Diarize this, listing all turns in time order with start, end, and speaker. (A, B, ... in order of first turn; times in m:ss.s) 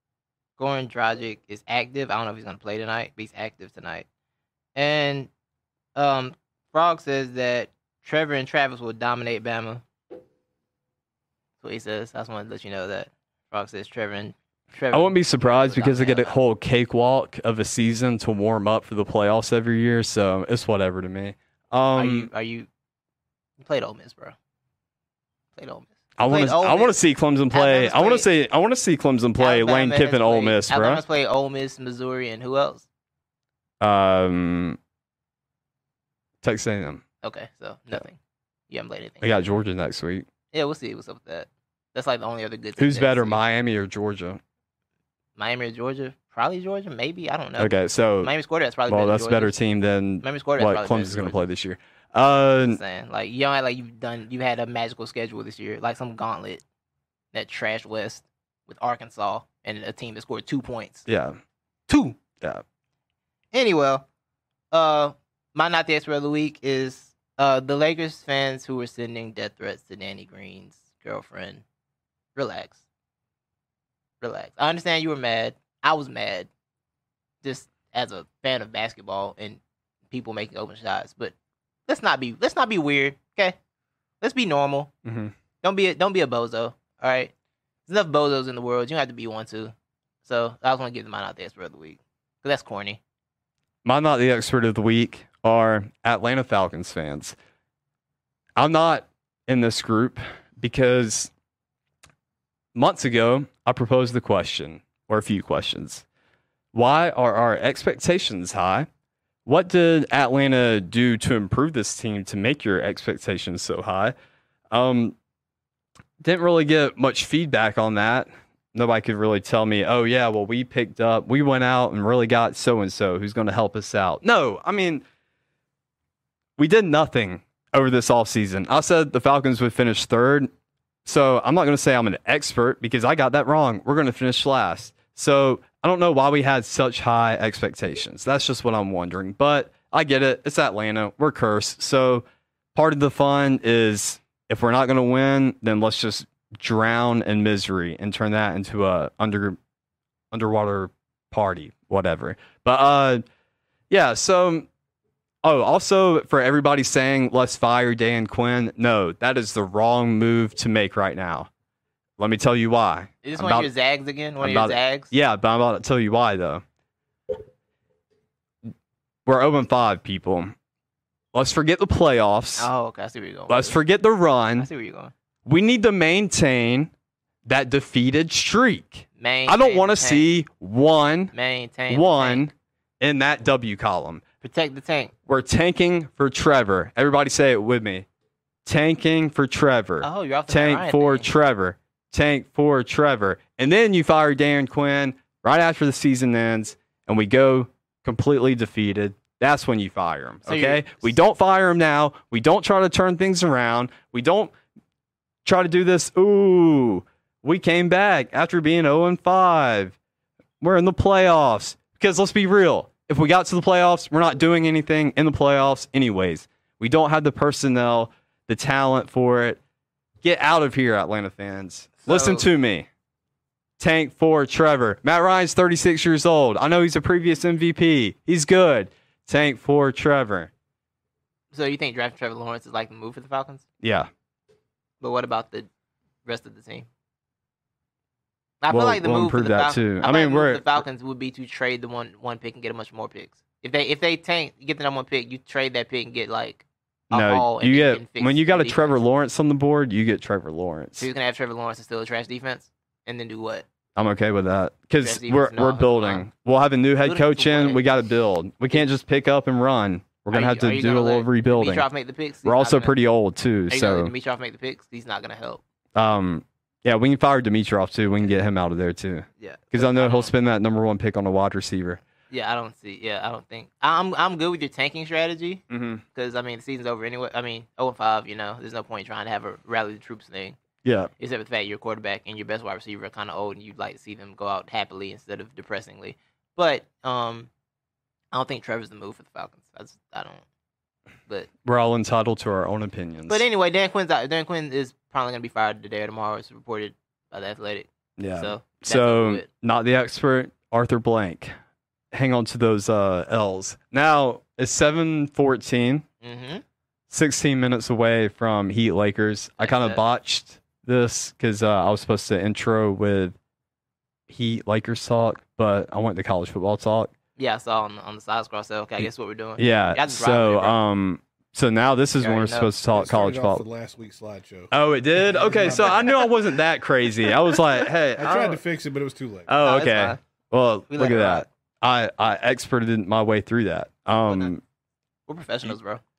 0:00.6-0:04.0 A
0:04.8-0:05.3 A
0:06.0-0:09.8 A
0:11.6-0:16.4 A
0:14.9-0:22.3 B
0:21.9-0:22.7 A
0:23.6-0:24.4 A
0:25.6-0:27.0 A
0:26.2-0:31.0 B
0:27.5-0:28.3 A
0:29.4-0:32.8 A
0:33.8-0:34.8 B
0:36.4-0:37.0 B
0:37.2-0:38.2 A
0:38.7-0:39.4 A
0:39.2-0:40.2 B
0:40.5-0:43.4 A
0:42.8-0:44.4 B
0:45.4-0:49.5 A
0:47.6-0:48.3 B
0:48.9-0:52.8 B
0:50.2-0:51.4 A
0:52.7-0:56.6 A
0:57.3-1:01.0 A
1:01.1-1:01.4 B
1:01.9-1:02.2 A
1:03.5-1:04.0 A
1:04.7-1:11.6 A
1:12.4-1:12.8 A
1:14.2-1:16.5 A
1:17.4-1:21.3 A
1:21.9-1:23.6 A
1:24.2-1:24.9 A
1:25.0-1:25.3 B
1:25.6-1:27.3 A
1:27.8-1:33.0 A
1:33.8-1:37.4 B
1:38.6-1:41.3 B
1:42.7-1:46.0 B
1:46.7-1:48.9 B
1:49.4-1:54.1 B
1:54.7-1:55.2 B
1:56.2-2:05.0 B
2:06.6-2:10.5 B
2:11.0-2:29.6 B
2:30.3-2:33.2 B
2:33.9-2:34.7 B
2:35.4-2:41.5 B
2:42.2-2:43.7 B
2:43.2-2:45.1 A
2:44.4-2:46.6 B
2:49.2-2:50.5 B
2:51.3-2:52.7 B
2:52.6-2:53.8 A
2:53.5-2:54.7 B
2:54.6-2:55.1 A
2:55.4-2:56.9 B
2:57.4-3:01.3 B
2:59.2-3:00.2 A
3:01.3-3:02.5 A
3:01.9-3:04.2 B
3:04.4-3:05.1 A
3:05.3-3:08.0 B
3:08.6-3:24.5 B
3:10.0-3:11.3 A
3:20.4-3:21.1 A
3:25.4-3:30.0 B
3:30.6-3:39.6 B
3:40.2-3:42.9 B
3:42.0-3:42.4 A
3:43.8-3:50.5 B
3:51.5-3:53.6 A
3:53.8-3:54.1 B
3:55.0-3:55.7 A
3:56.2-3:56.9 A
3:58.6-4:09.0 A
3:58.7-4:00.8 B
4:07.1-4:11.1 B
4:11.0-4:13.6 A
4:14.0-4:21.8 B
4:15.0-4:16.2 A
4:17.0-4:17.8 A
4:20.3-4:22.9 A
4:22.4-4:24.1 B
4:23.7-4:25.6 A
4:25.9-4:32.0 B
4:29.4-4:30.3 A
4:32.3-4:40.6 A
4:35.7-4:36.0 B
4:40.8-4:41.1 B
4:41.2-4:47.5 A
4:48.3-4:50.4 A
4:51.6-4:53.4 B
4:53.3-4:59.5 A
4:58.2-5:01.5 B
5:02.1-5:06.0 B
5:06.2-5:06.6 A
5:07.1-5:13.4 B
5:09.6-5:10.0 A
5:14.3-5:17.1 B
5:17.4-5:20.8 A
5:19.6-5:23.6 B
5:22.2-5:22.7 A
5:22.9-5:26.2 C
5:24.7-5:28.4 B
5:25.9-5:26.2 A
5:28.2-5:29.5 C
5:28.2-5:28.6 A
5:29.5-5:34.6 B
5:29.6-5:30.2 A
5:30.9-5:31.4 A
5:35.3-5:36.0 A